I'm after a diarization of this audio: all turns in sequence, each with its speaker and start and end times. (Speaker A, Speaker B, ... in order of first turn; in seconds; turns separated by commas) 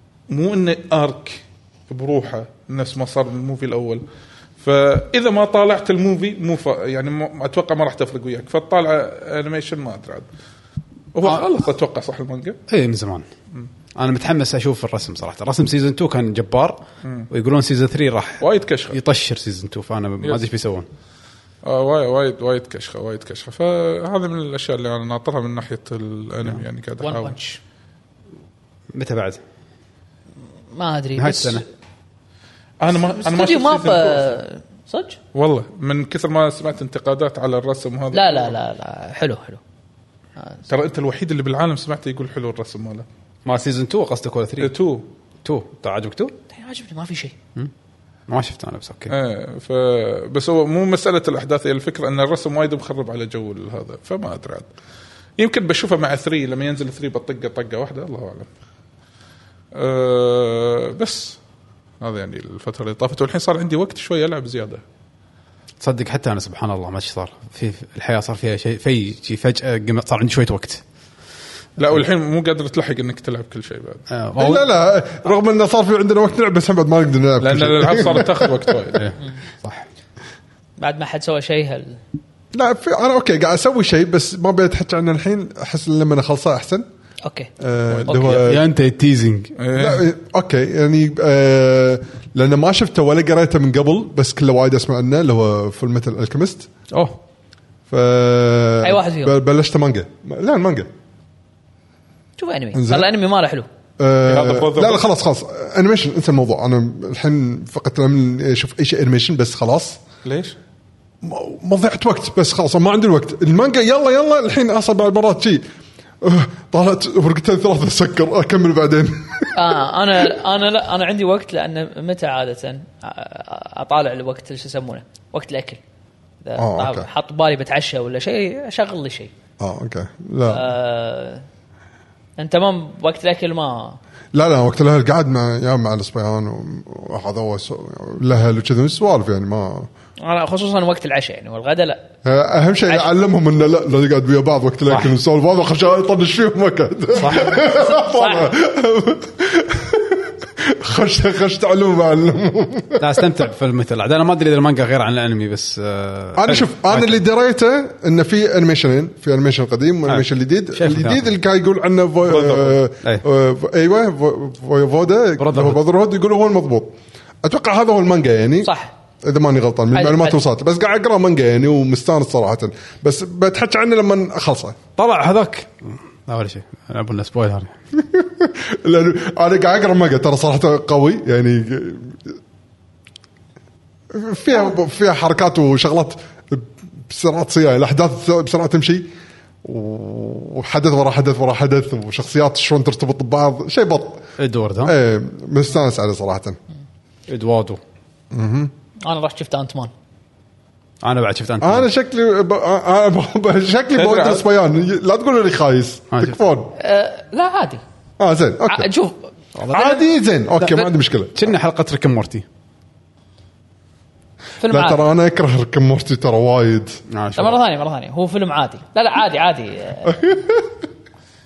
Speaker A: 0.3-4.0, Speaker A: 4.6-10.3, Speaker A: 11.1-12.6, Speaker B: 12.7-13.2, Speaker B: 13.9-20.9, Speaker A: 17.0-17.3, Speaker A: 18.4-19.0, Speaker A: 20.2-20.5, Speaker A: 21.6-27.4, Speaker C: 27.0-27.6, Speaker B: 28.9-29.4, Speaker C: 30.7-31.6, Speaker B: 31.2-31.6, Speaker A: 32.8-34.3, Speaker C: 32.9-35.2, Speaker A: 35.3-38.5, Speaker C: 38.1-39.6, Speaker C: 40.4-40.6, Speaker A: 40.7-43.0, Speaker B: 43.4-44.7, Speaker A: 44.6-45.0, Speaker B: 45.4-46.3, Speaker C: 46.5-47.3, Speaker B: 48.3-49.1, Speaker A: 49.1-54.7, Speaker A: 55.4-58.5, Speaker A: 59.7-61.4, Speaker A: 62.0-64.8, Speaker B: 65.8-70.8, Speaker A: 71.8-74.1, Speaker B: 74.1-74.7, Speaker D: 74.3-78.8, Speaker A: 77.4-79.1, Speaker B: 79.0-79.8, Speaker C: 80.8-82.0, Speaker D: 82.5-86.8, Speaker C: 87.2-87.5, Speaker D: 87.6-88.6, Speaker A: 87.9-88.4, Speaker C: 88.1-88.4, Speaker B: 88.4-89.5, Speaker A: 89.6-90.0, Speaker D: 89.7-96.7, Speaker B: 96.9-97.2, Speaker D: 97.9-100.9, Speaker C: 98.8-99.3, Speaker C: 102.4-103.7, Speaker D: 102.7-103.1, Speaker D: 104.0-110.0, Speaker A: 104.2-105.0, Speaker A: 110.2-110.5, Speaker D: 111.2-115.6, Speaker D: 116.2-119.9, Speaker C: 119.5-125.8, Speaker C: 126.4-129.3, Speaker D: 126.6-127.1, Speaker D: 129.6-130.7, Speaker C: 130.5-131.4, Speaker C: 132.4-134.0, Speaker D: 134.3-139.9, Speaker C: 140.2-142.1, Speaker D: 142.2-153.2, Speaker B: 144.9-145.2, Speaker B: 147.2-147.6, Speaker C: 147.3-148.5, Speaker B: 153.0-157.2, Speaker D: 156.4-168.7, Speaker B: 160.1-161.3, Speaker A: 162.2-162.8, Speaker B: 165.4-165.8, Speaker C: 168.6-168.9, Speaker D: 169.2-174.8, Speaker C: 169.9-170.4, Speaker B: 175.0-177.7, Speaker D: 178.0-182.3, Speaker D: 184.1-189.1, Speaker D: 189.6-194.3, Speaker B: 194.4-194.9, Speaker D: 194.8-196.6, Speaker B: 197.3-197.8, Speaker D: 198.3-198.7, Speaker C: 199.0-199.9, Speaker B: 201.0-201.9, Speaker D: 201.6-206.7, Speaker A: 203.9-204.5, Speaker C: 206.8-207.8, Speaker D: 208.2-208.9, Speaker C: 208.7-210.1, Speaker D: 209.7-211.5, Speaker C: 210.6-210.9, Speaker B: 211.3-212.4, Speaker C: 214.6-215.0, Speaker D: 214.7-217.0, Speaker B: 217.1-217.6, Speaker C: 217.3-220.1, Speaker D: 220.0-220.7